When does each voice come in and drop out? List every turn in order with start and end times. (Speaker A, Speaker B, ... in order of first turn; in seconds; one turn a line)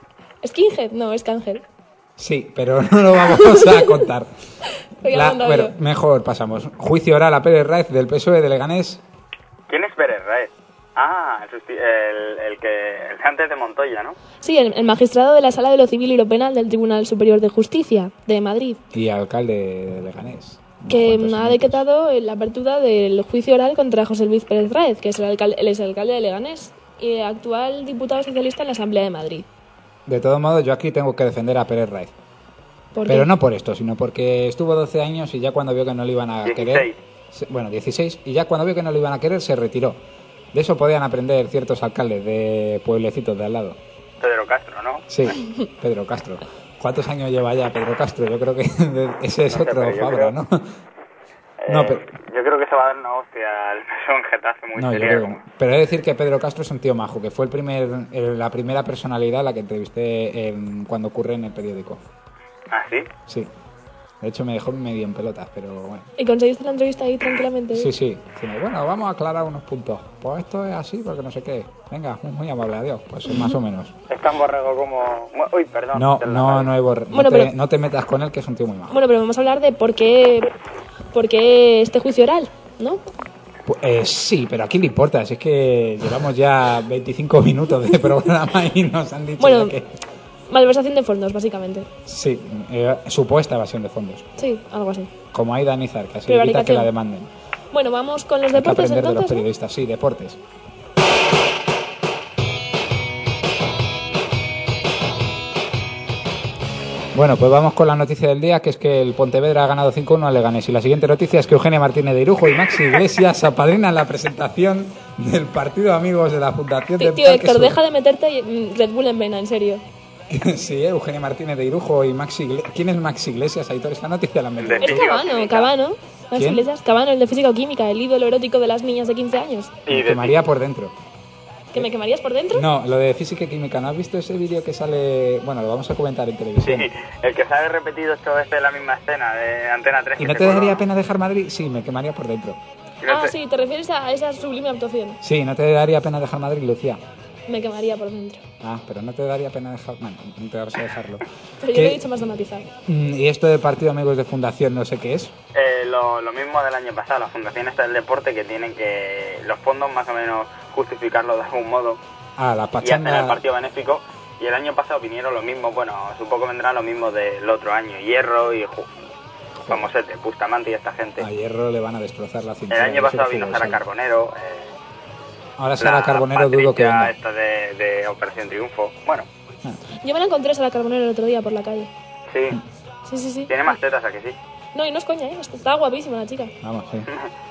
Speaker A: 0.4-1.6
Speaker B: 2.2-4.3
Speaker A: 3.3-4.0
Speaker A: 5.0-5.8
Speaker B: 5.1-9.0
Speaker C: 9.7-14.2
Speaker A: 14.4-18.8
Speaker B: 18.9-21.8
Speaker A: 20.9-29.5
Speaker B: 30.1-32.1
Speaker A: 32.9-33.3
Speaker B: 33.0-40.0
Speaker C: 36.5-37.0
Speaker B: 40.5-43.8
Speaker C: 44.2-45.4
Speaker B: 45.1-50.8
Speaker C: 49.5-50.3
Speaker C: 51.6-55.4
Speaker B: 51.7-52.0
Speaker B: 54.8-62.0
Speaker C: 62.7-63.1
Speaker B: 63.3-63.5
Speaker B: 64.2-66.1
Speaker A: 66.2-67.9
Speaker B: 67.7-73.9
Speaker C: 74.1-76.7
Speaker B: 75.9-79.0
Speaker A: 77.1-77.5
Speaker A: 78.9-80.5
Speaker A: 81.1-83.0
Speaker B: 83.7-90.0
Speaker A: 89.4-89.8
Speaker A: 90.5-91.9
Speaker B: 92.1-94.3
Speaker A: 94.4-95.1
Speaker B: 95.3-97.3
Speaker A: 96.3-96.9
Speaker A: 97.7-99.5
Speaker B: 98.5-100.4
Speaker B: 107.1-117.8
Speaker A: 117.0-119.8
Speaker B: 120.3-125.1
Speaker C: 124.6-125.7
Speaker A: 124.8-129.8
Speaker B: 126.3-126.7
Speaker C: 129.9-130.4
Speaker B: 129.9-130.9
Speaker A: 131.7-132.7
Speaker B: 132.5-136.9
Speaker C: 136.6-140.8
Speaker B: 140.2-142.6
Speaker C: 143.0-143.3
Speaker A: 143.1-145.2
Speaker B: 145.2-147.0
Speaker A: 147.5-148.4
Speaker B: 148.6-152.0
Speaker A: 151.6-152.7
Speaker B: 152.9-155.3
Speaker C: 155.5-162.0
Speaker B: 162.4-163.4
Speaker C: 162.8-168.9
Speaker B: 169.6-169.9
Speaker C: 169.7-171.3
Speaker B: 171.2-173.8
Speaker C: 172.7-174.7
Speaker B: 175.6-177.1
Speaker C: 175.8-179.3
Speaker A: 180.0-181.9
Speaker C: 182.3-182.6
Speaker A: 183.1-183.5
Speaker C: 183.5-184.3
Speaker A: 184.8-186.5
Speaker B: 186.6-187.1